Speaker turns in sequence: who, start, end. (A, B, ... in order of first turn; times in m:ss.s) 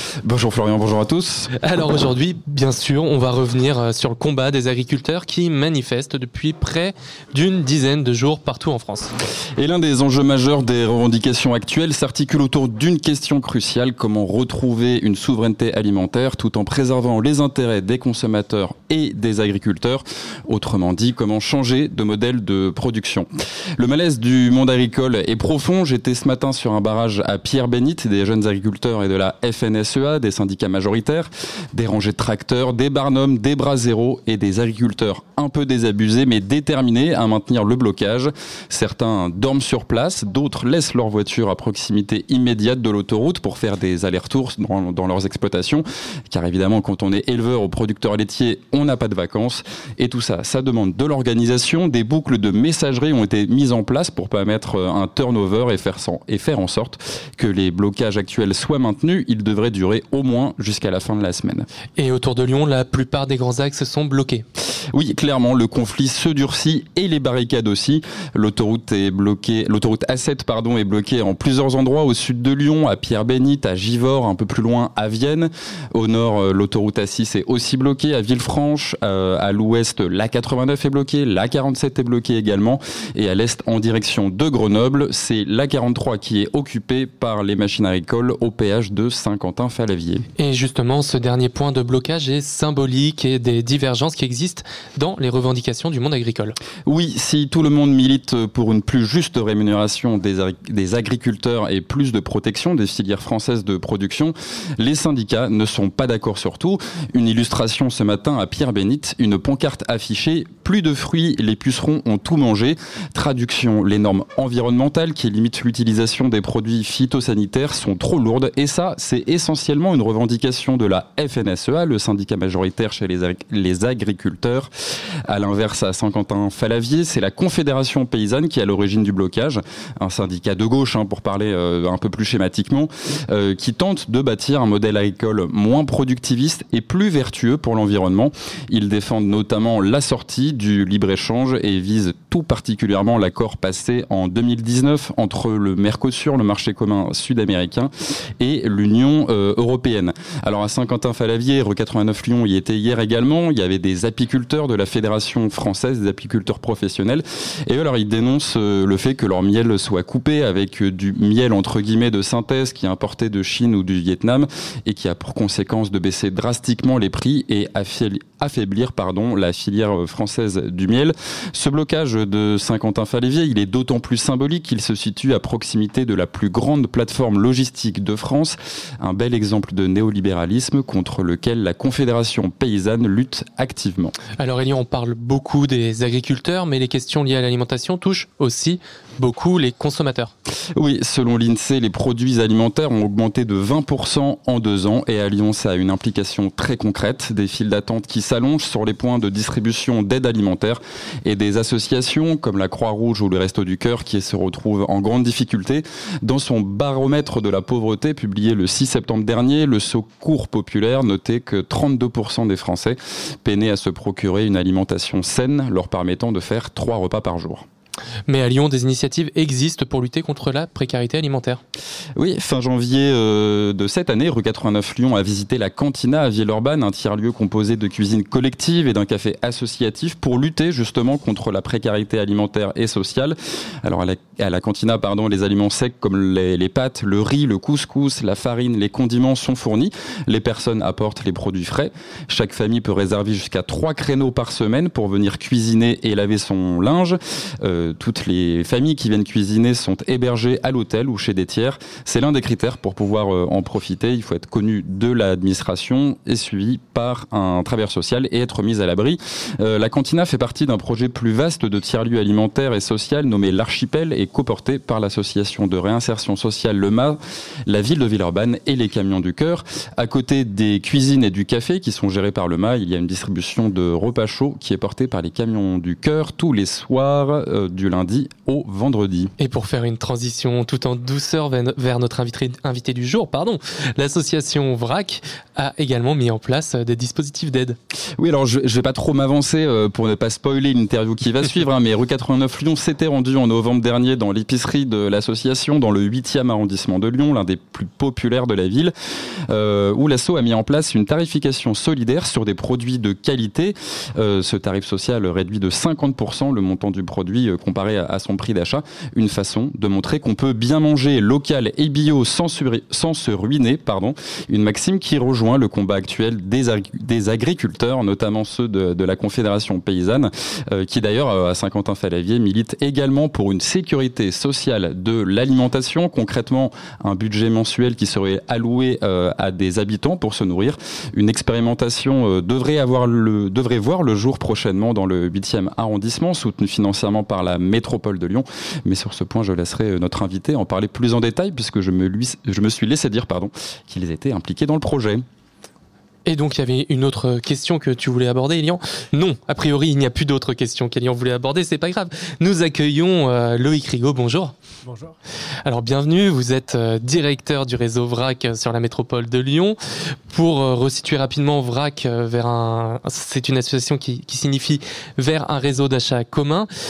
0:00.2-0:01.5 A
0:01.6-0:09.1 B
0:09.6-1:01.7 A
1:02.0-1:04.4 B
1:04.9-1:30.3 A
1:30.4-1:36.6 B
1:36.9-2:04.7 A
2:05.3-3:04.2 A
3:04.4-3:10.3 B
3:10.8-3:37.7 A
3:38.3-3:41.6 B
3:42.2-4:39.3 A
4:39.4-4:47.8 B
4:48.2-4:58.9 A
4:59.5-5:45.2 A
5:46.2-5:54.6 B
5:55.6-5:59.8 B
6:00.3-6:06.7 B